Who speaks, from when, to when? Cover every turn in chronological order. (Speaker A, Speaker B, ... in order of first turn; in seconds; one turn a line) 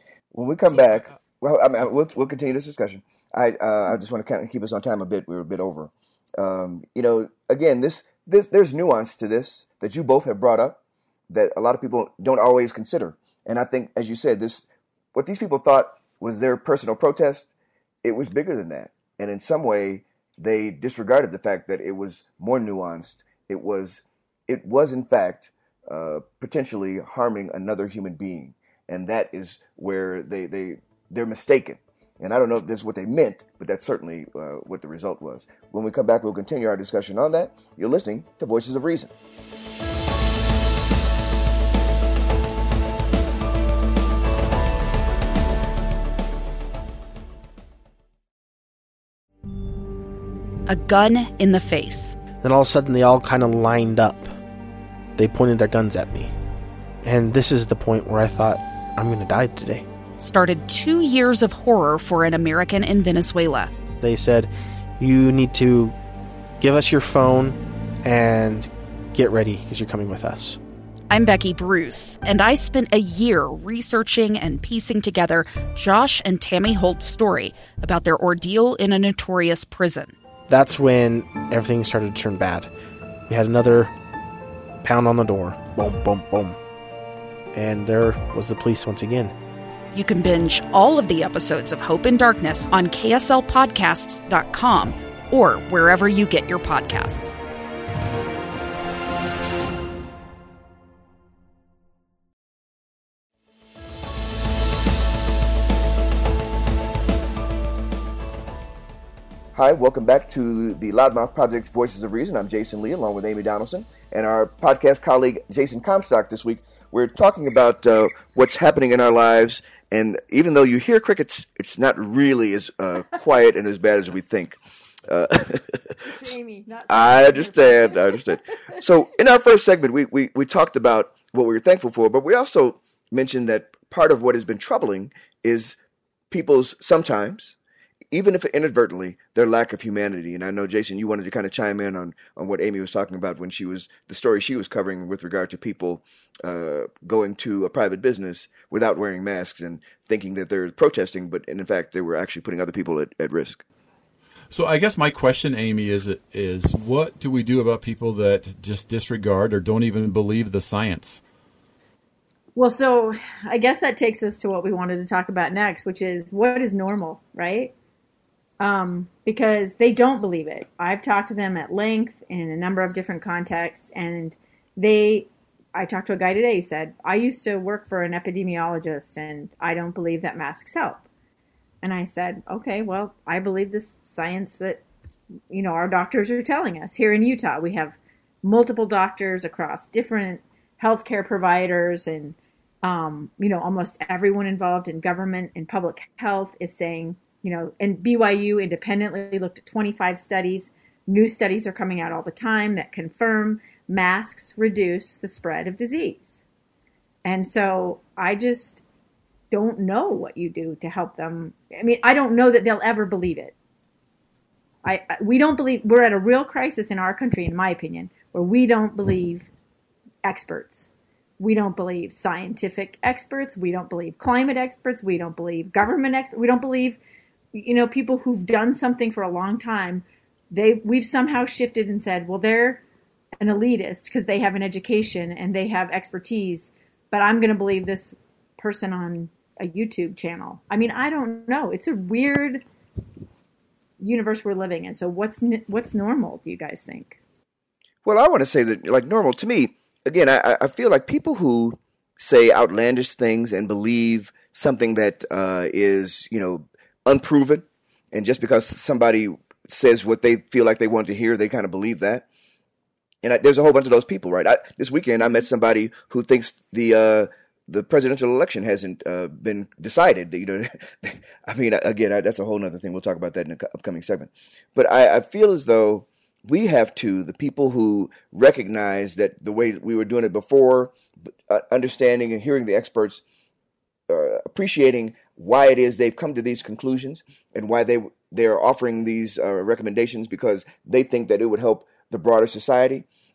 Speaker A: 0.3-17.5
Speaker A: 18.0-39.1
Speaker B: 50.7-52.2
Speaker C: 52.4-54.3
Speaker C: 55.1-56.3
Speaker C: 57.0-59.8
Speaker B: 60.2-63.7
Speaker C: 64.0-65.9
Speaker C: 66.6-70.6
Speaker B: 71.1-80.1
Speaker C: 80.5-82.7
Speaker C: 83.3-83.9
Speaker C: 84.8-86.6
Speaker C: 87.5-89.3
Speaker B: 89.9-97.4
Speaker A: 109.5-126.3
Speaker D: 126.0-128.8
Speaker A: 126.9-135.8
Speaker A: 136.3-137.6
Speaker A: 138.1-153.6
Speaker E: 154.5-161.2
Speaker D: 162.6-167.7
Speaker D: 168.6-181.0
Speaker D: 181.8-184.8
Speaker D: 185.5-206.4
Speaker D: 207.2-208.8
Speaker D: 209.5-213.5
Speaker D: 214.8-219.5
Speaker D: 220.2-220.9
Speaker D: 221.4-227.0
Speaker D: 227.5-232.8
Speaker D: 233.4-242.6
Speaker D: 244.0-247.2
Speaker A: 248.0-262.2
Speaker A: 263.2-280.9
Speaker A: 281.5-283.2
Speaker A: 284.1-293.1